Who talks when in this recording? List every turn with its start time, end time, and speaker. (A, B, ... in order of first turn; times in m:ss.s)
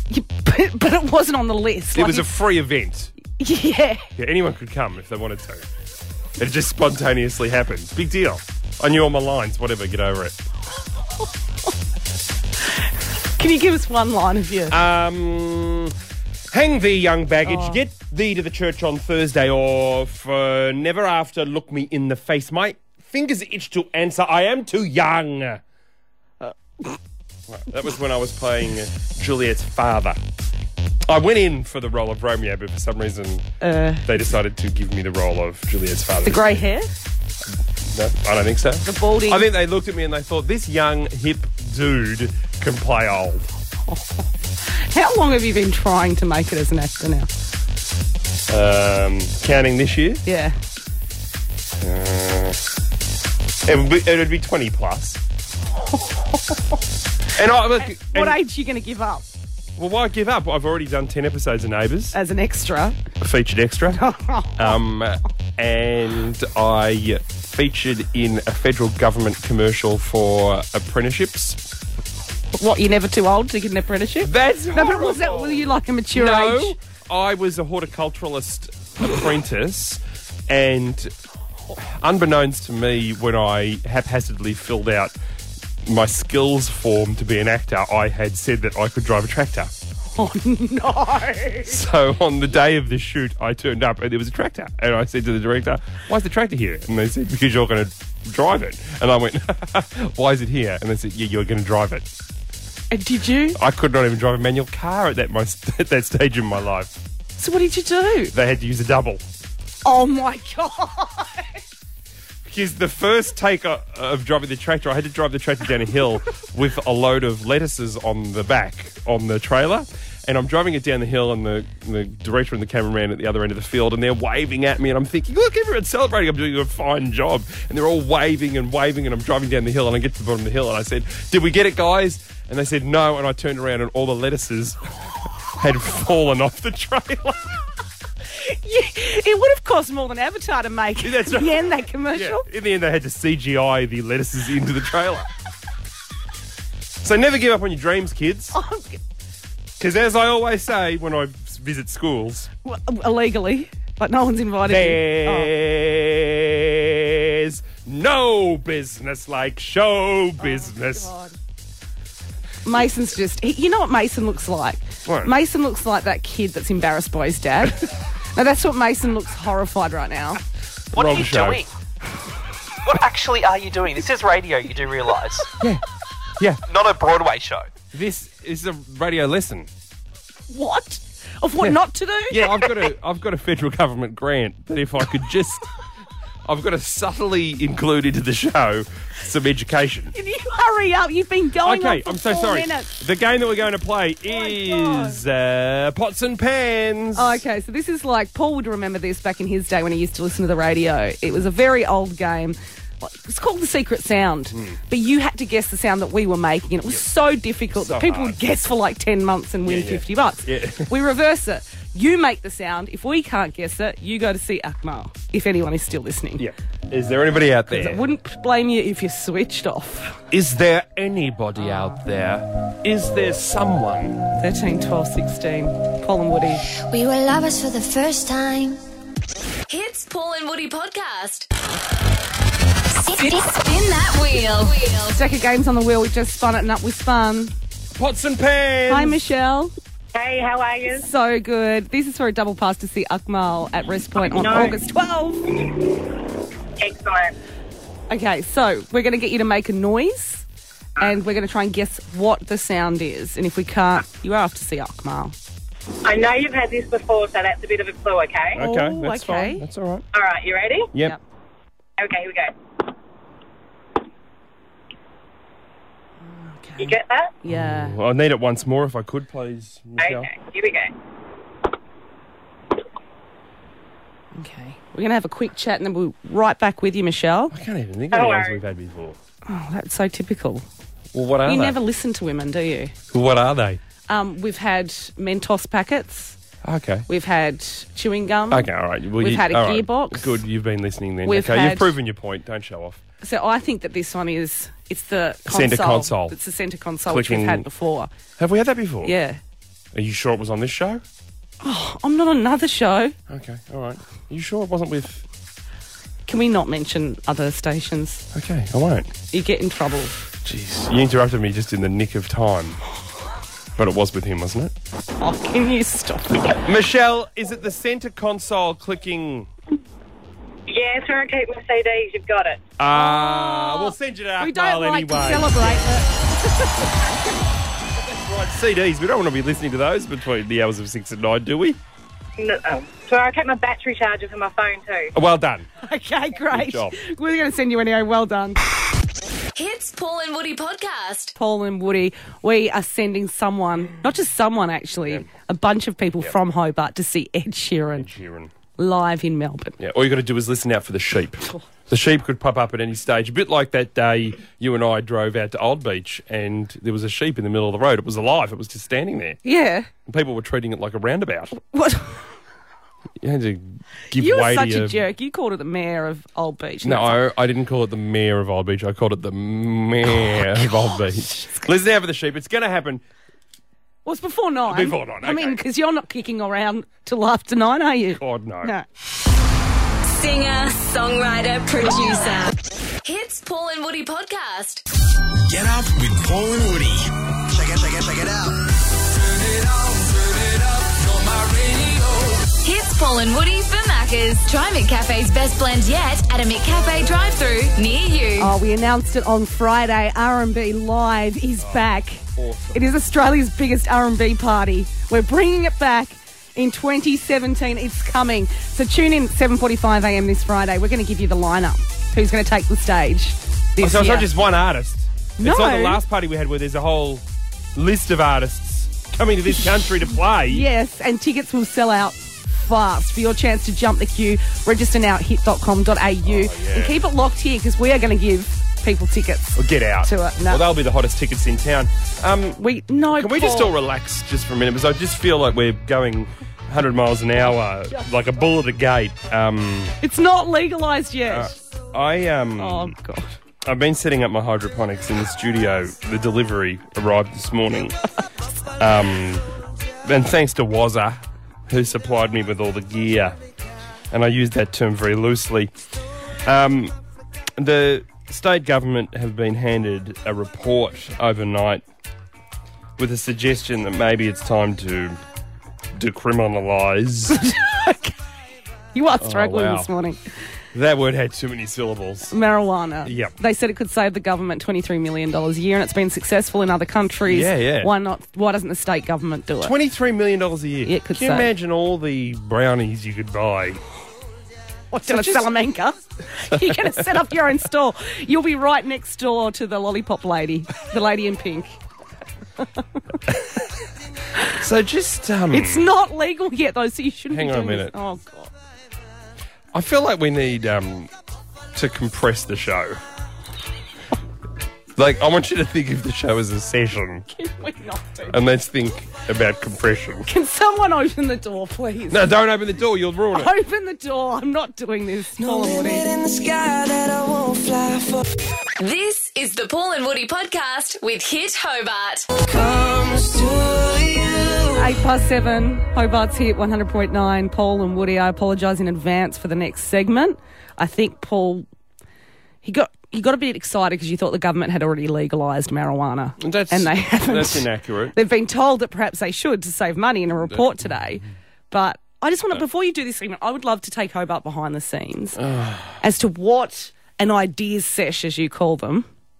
0:00.1-0:02.3 A
0:01.9-0:03.1 B
0:03.4-0:04.1 A
0:04.2-0:05.7 B
0:06.4-0:10.4 B
0:13.4-0:14.8 A
0:14.7-0:16.0 B
0:16.5-0:25.6 B
0:17.5-0:17.8 A
0:26.4-0:26.8 A
0:27.5-0:30.2 B
0:31.1-0:33.5 B
0:33.6-0:34.1 A
0:34.0-0:36.6 B
0:36.2-0:36.9 A
0:37.9-0:43.5 B
0:38.8-0:39.4 A
0:43.9-0:47.3 A
0:48.5-0:50.2 B
0:50.3-0:50.6 A
0:51.8-0:52.6 B
0:53.6-0:55.2 B
0:55.8-0:56.8 A
0:57.3-0:58.4 B
0:57.8-0:59.2 A
0:59.8-1:02.2 B
1:02.1-1:03.0 A
1:03.2-1:04.0 B
1:03.9-1:04.8 A
1:04.6-1:11.6 B
1:12.6-1:16.8 A
1:14.2-1:21.1 B
1:21.8-1:25.1 B
1:25.8-1:29.7 B
1:30.2-1:31.8 A
1:31.6-1:42.1 B
1:42.9-1:43.6 A
1:43.6-1:46.9 B
1:47.4-1:48.3 A
1:48.3-1:49.2 B
1:49.8-1:51.6 A
1:52.4-2:14.8 B
2:15.6-2:17.5 B
2:18.4-2:22.5 A
2:21.0-2:25.3 B
2:27.0-2:28.6 B
2:28.5-2:29.0 A
2:29.8-2:32.5 B
2:32.6-2:35.5 A
2:34.6-2:41.1 B
2:40.4-2:41.4 A
2:42.6-2:50.4 A
2:45.1-2:45.3 B
2:50.9-2:51.7 C
2:50.9-2:51.6 B
2:52.8-2:55.6 C
2:56.7-2:57.7 C
2:57.9-2:59.7 B
3:00.5-3:02.7 A
3:02.3-3:05.7 B
3:06.4-3:10.1 B
3:10.2-3:12.9 A
3:11.6-3:17.4 B
3:14.3-3:15.2 A
3:17.2-3:36.4 A
3:24.5-3:24.8 B
3:27.7-3:28.4 B
3:29.6-3:30.9 B
3:36.4-3:38.0 B
3:37.7-3:40.2 A
3:40.3-3:44.2 B
3:44.4-3:46.6 A
3:46.9-3:48.8 D
3:49.7-3:51.5 E
3:53.2-3:55.2 E
3:55.1-3:57.5 A
3:58.0-3:59.2 B
3:58.9-3:59.7 A
4:00.1-4:01.1 F
4:01.0-4:05.6 A
4:04.2-4:04.8 F
4:06.8-4:07.4 F
4:08.1-4:10.4 A
4:11.0-4:15.4 A
4:16.0-4:18.6 F
4:18.6-4:20.0 B
4:18.6-4:19.6 A
4:20.1-4:20.9 F
4:22.0-4:22.5 F
4:26.3-4:28.0 A
4:26.8-4:27.3 F
4:27.5-4:30.3 B
4:30.0-4:30.9 F
4:34.4-4:37.5 A
4:37.5-4:39.2 B
4:38.1-4:38.6 F
4:39.5-4:40.6 A
4:41.1-4:41.8 B
4:41.4-4:42.9 A
4:43.1-4:43.8 B
4:44.1-4:46.4 A
4:46.6-4:47.1 B
4:47.1-4:50.4 A
4:48.5-4:53.0 B
4:51.2-4:52.0 A
4:53.2-4:58.1 A
4:55.5-4:56.4 B
4:57.1-4:57.7 B
4:58.4-4:59.2 B
4:59.0-4:59.4 A
4:59.9-5:01.0 B
5:01.6-5:03.2 A
5:03.3-5:05.2 B
5:06.3-5:08.2 A
5:08.3-5:09.1 B
5:09.3-5:10.2 A
5:10.4-5:12.8 B
5:13.8-5:14.7 B
5:15.2-5:16.6 A
5:16.6-5:19.5 B
5:20.7-5:22.6 F
5:22.8-5:25.9 B
5:22.9-5:27.2 A
5:28.0-5:31.8 B
5:32.4-5:35.1 F
5:35.1-5:35.7 B
5:35.8-5:38.6 A
5:36.5-5:37.0 B
5:39.6-5:41.3 E
5:41.4-5:48.1 A
5:48.0-5:48.5 B
5:48.8-5:49.8 A
5:49.8-5:59.4 B
5:59.4-5:59.9 A
6:00.0-6:01.5 B
6:01.6-6:02.2 A
6:03.2-6:05.1 B
6:04.1-6:07.2 A
6:06.8-6:13.0 B
6:10.7-6:11.6 A
6:14.0-6:18.9 A
6:14.7-6:15.6 B
6:18.2-6:18.7 B
6:20.1-6:24.8 E
6:25.4-6:27.1 G
6:27.5-6:28.6 F
6:29.0-6:32.5 G
6:32.6-6:38.5 E
6:38.4-6:54.3 A
6:41.6-6:42.9 B
6:53.8-6:57.2 B
6:55.4-6:56.0 A
6:57.8-7:00.7 B
7:00.5-7:10.6 A
7:06.2-7:07.0 B
7:09.6-7:20.0 B
7:12.6-7:13.7 A
7:20.0-7:21.6 A
7:21.3-7:23.0 B
7:22.6-7:23.4 A
7:23.6-7:28.0 B
7:28.8-7:29.5 B
7:30.0-7:33.4 B
7:34.1-7:35.7 B
7:36.4-7:37.0 B
7:37.6-7:41.8 B
7:43.0-7:45.2 B
7:46.0-7:47.4 B
7:47.3-7:48.2 A
7:49.0-7:50.2 A
7:49.2-7:49.9 B
7:50.7-7:52.3 B
7:52.3-7:59.7 A
7:53.1-7:53.3 B
7:57.3-7:57.9 B
7:59.6-8:03.8 B
8:00.8-8:01.5 A
8:04.9-8:11.8 A
8:05.1-8:05.5 B
8:06.5-8:07.0 B
8:14.5-8:15.9 B
8:15.5-8:18.5 A
8:17.3-8:17.9 B
8:19.7-8:21.1 B
8:21.8-8:23.0 B
8:25.0-8:27.3 B
8:27.3-8:28.4 A
8:28.3-8:30.3 B
8:30.3-8:32.3 A
8:32.1-8:33.5 B
8:33.3-8:36.1 A
8:35.5-8:38.2 H
8:38.8-8:42.3 E
8:42.4-8:44.9 H
8:44.8-8:51.7 A
8:52.6-9:05.4 A
8:56.4-8:58.2 B
9:05.4-9:06.0 B
9:06.0-9:09.1 A